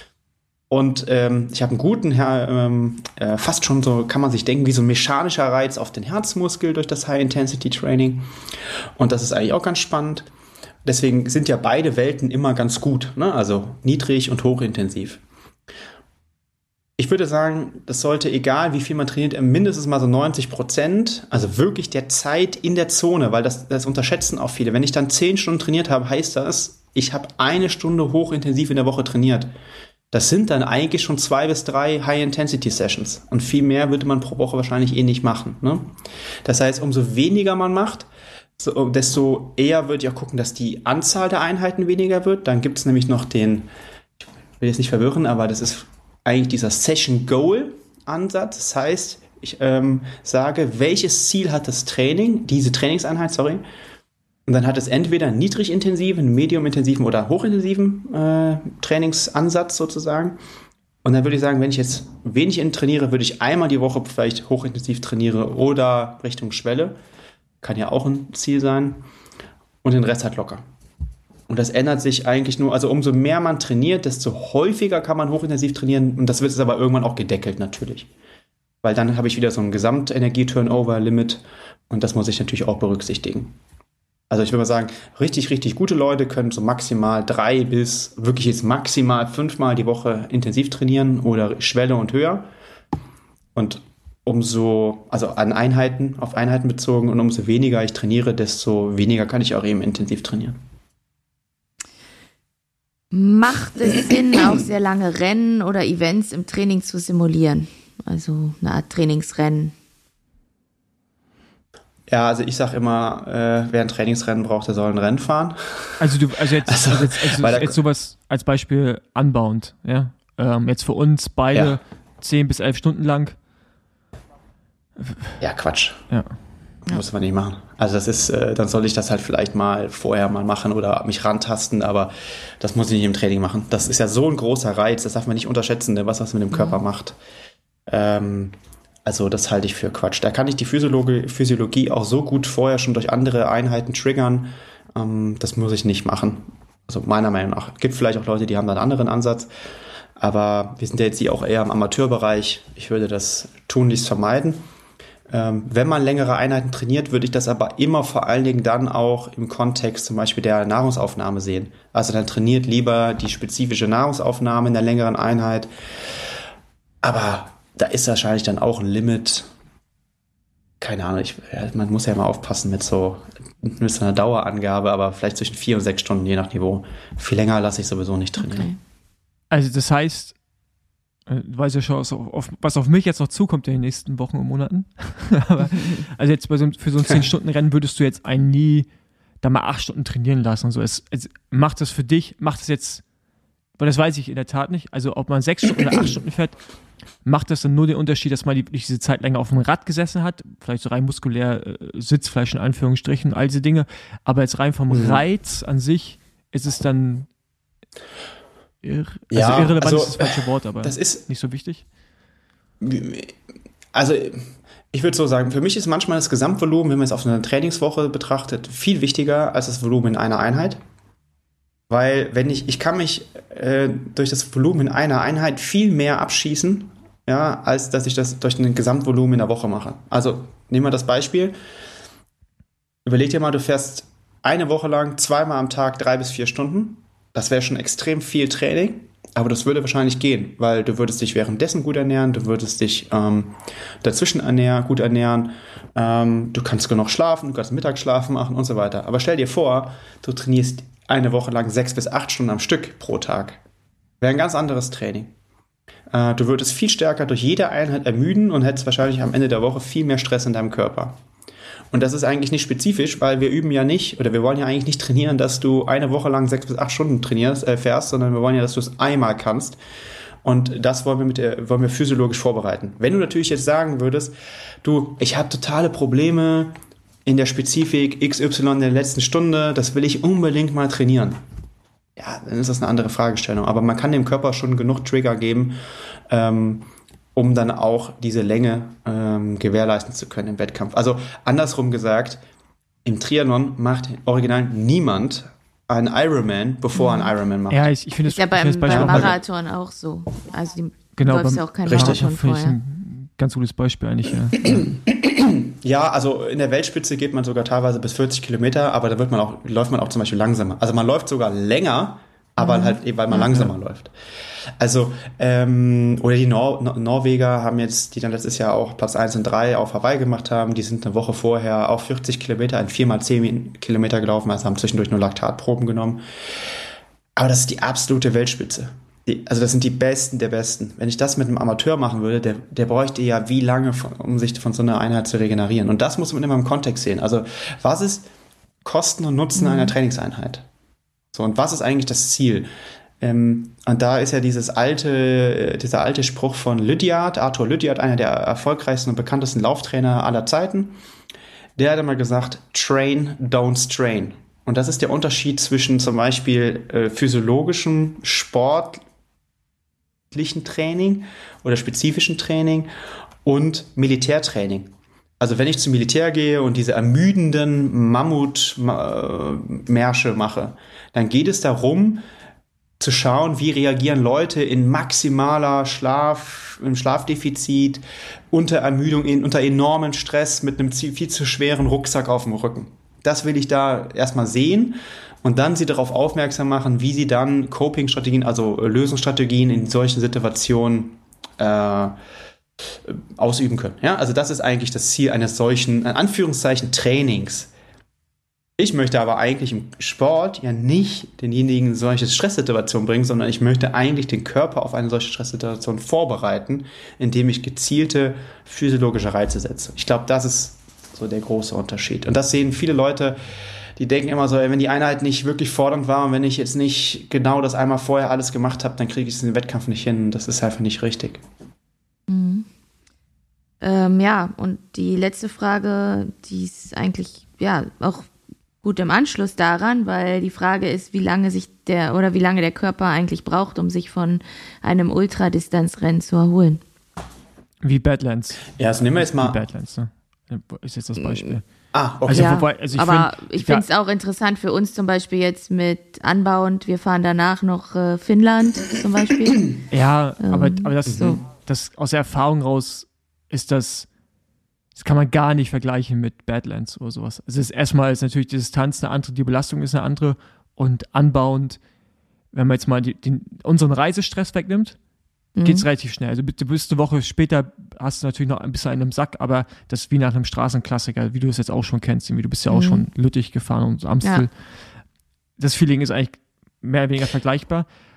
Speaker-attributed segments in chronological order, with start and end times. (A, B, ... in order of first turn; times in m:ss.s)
0:00.7-0:08.3 A
0:09.0-0:10.3 A
0:10.8-0:15.2 A
0:17.0-0:29.5 A
0:30.1-0:35.8 A
0:36.4-0:43.7 A
0:44.6-0:53.6 A
0:54.5-1:00.4 A
1:01.0-1:06.9 A
1:07.6-1:09.0 A
1:09.8-1:10.6 A
1:11.5-1:18.1 A
1:18.8-1:23.5 A
1:24.3-1:32.4 A
1:33.5-1:40.6 A
1:43.1-1:49.7 B
1:52.1-1:56.1 A
1:56.0-2:03.4 C
1:56.6-1:57.8 A
2:01.5-2:01.8 A
2:05.0-2:05.4 C
2:05.4-2:06.1 A
2:06.1-2:06.4 C
2:06.9-2:17.2 A
2:16.5-2:16.8 B
2:17.9-2:18.5 A
2:19.0-2:29.5 A
2:30.2-2:34.6 A
2:35.3-2:45.7 A
2:47.0-2:49.5 A
2:50.8-2:58.7 A
2:58.4-2:58.8 B
2:59.5-3:00.4 C
3:01.2-3:08.9 C
3:09.4-3:13.0 C
3:13.8-3:16.6 C
3:17.2-3:27.3 C
3:24.9-3:25.2 A
3:28.8-3:31.8 C
3:29.3-3:31.2 A
3:32.8-3:33.3 A
3:33.9-3:40.8 A
3:41.9-3:51.5 A
3:53.0-4:13.6 A
4:14.2-4:15.3 A
4:16.1-4:21.2 A
4:21.9-4:29.8 A
4:30.4-4:36.7 A
4:37.2-4:41.4 A
4:42.2-4:45.8 A
4:46.3-4:52.4 A
4:53.0-4:57.9 A
4:57.0-4:57.3 B
4:57.7-4:59.4 C
4:58.3-5:02.8 B
4:58.8-4:59.4 A
5:01.2-5:04.9 C
5:01.8-5:02.2 A
5:04.6-5:14.1 A
5:12.6-5:13.6 B
5:13.4-5:13.7 C
5:14.8-5:26.2 A
5:27.4-5:38.2 A
5:38.8-5:40.6 A
5:39.6-5:39.9 B
5:41.3-5:42.7 A
5:43.2-5:51.0 A
5:51.8-5:59.0 A
6:00.3-6:02.9 A
6:03.4-6:04.9 A
6:05.4-6:12.2 A
6:13.0-6:32.1 A
6:33.1-6:37.7 A
6:38.8-6:53.4 A
6:54.0-7:01.4 A
7:02.3-7:02.7 B
7:03.8-7:08.3 B
7:08.8-7:16.8 B
7:17.8-7:21.7 C
7:18.8-7:19.6 A
7:21.2-7:21.6 B
7:21.9-7:22.6 A
7:22.2-7:23.8 C
7:22.3-7:29.7 B
7:29.9-7:34.1 C
7:30.4-7:31.4 B
7:31.1-7:31.4 A
7:35.0-7:41.8 C
7:42.5-7:45.0 C
7:45.5-7:45.8 B
7:45.6-7:54.6 C
7:52.7-7:53.0 B
7:55.6-7:57.9 C